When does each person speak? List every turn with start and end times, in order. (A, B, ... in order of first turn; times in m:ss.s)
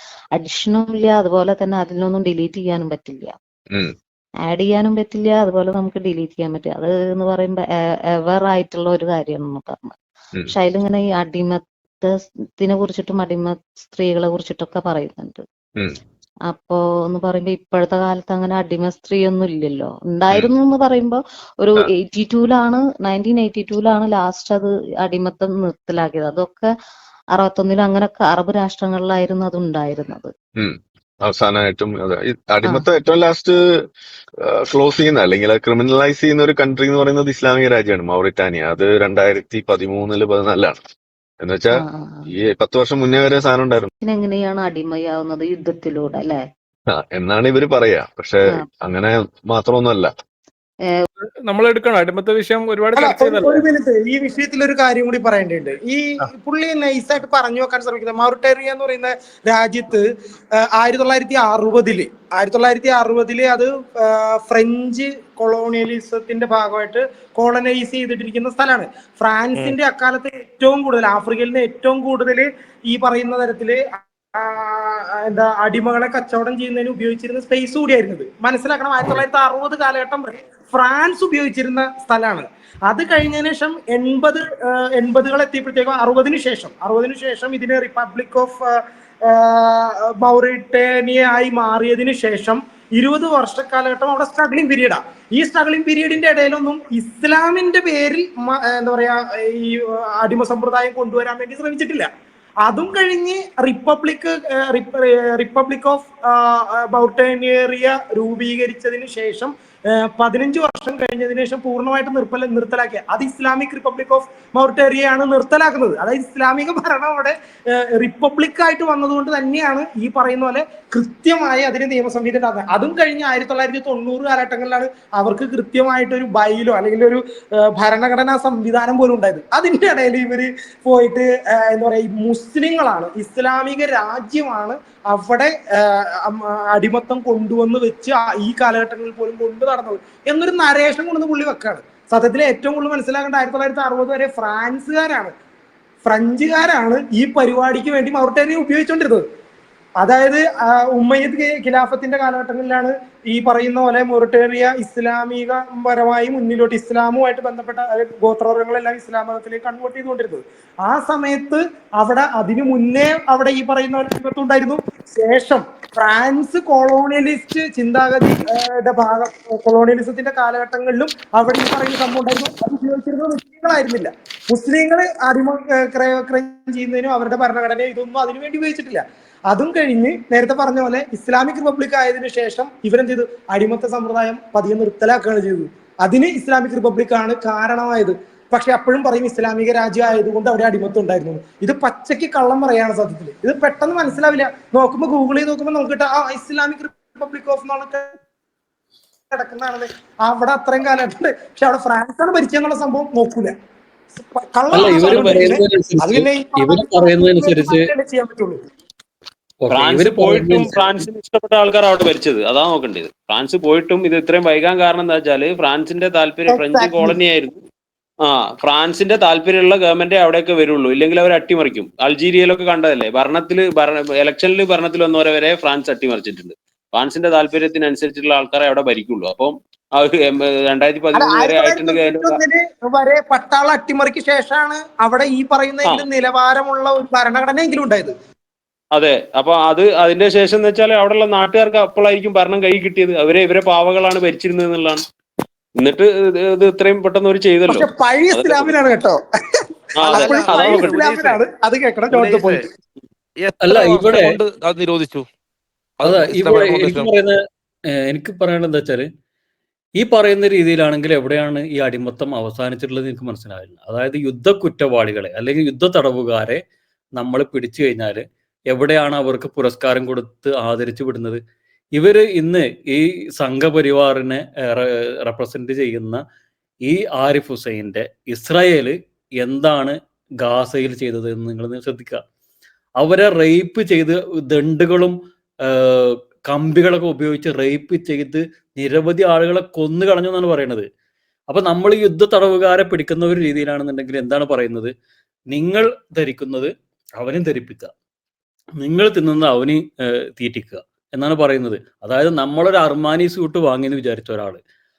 0:00.4-0:03.3 A
0:04.4-0:07.6 A
0:08.2-0:10.0 A
0:10.5-0:15.4 A
0:16.5-0:26.7 A
0:27.3-0:30.3 A
0:30.6-0:33.6 B
0:34.4-0:40.8 B
0:41.4-0:41.8 B
0:41.7-0:42.3 A
0:42.3-0:43.9 B
0:44.0-0:46.4 A
0:46.9-0:50.1 B
0:51.5-0:53.4 C
0:52.9-1:00.1 D
1:00.7-1:28.7 D
1:29.2-1:42.1 D
1:42.6-2:07.2 D
2:07.7-2:25.3 D
2:26.0-2:29.2 D
2:30.0-3:18.1 D
3:19.3-3:23.5 D
3:24.1-3:28.6 D
3:24.7-3:27.9 E
3:29.6-3:30.9 E
3:29.7-3:37.6 F
3:36.5-3:37.2 D
3:38.2-3:52.4 F
3:51.1-3:58.1 D
3:58.9-4:05.0 F
4:05.8-4:08.7 F
4:07.7-4:09.2 D
4:10.0-4:11.1 F
4:10.0-4:12.6 D
4:10.1-4:11.4 G
4:12.1-4:12.7 G
4:13.4-4:15.2 G
4:13.6-4:14.3 E
4:16.0-4:17.1 G
4:16.0-4:17.4 E
4:17.9-4:19.0 E
4:20.0-4:26.6 E
4:27.2-4:31.4 E
4:32.0-4:36.2 E
4:36.9-4:42.2 E
4:43.0-4:50.8 E
4:51.5-4:54.9 E
4:55.5-4:57.9 E
4:58.8-4:59.8 E
5:00.4-5:04.6 E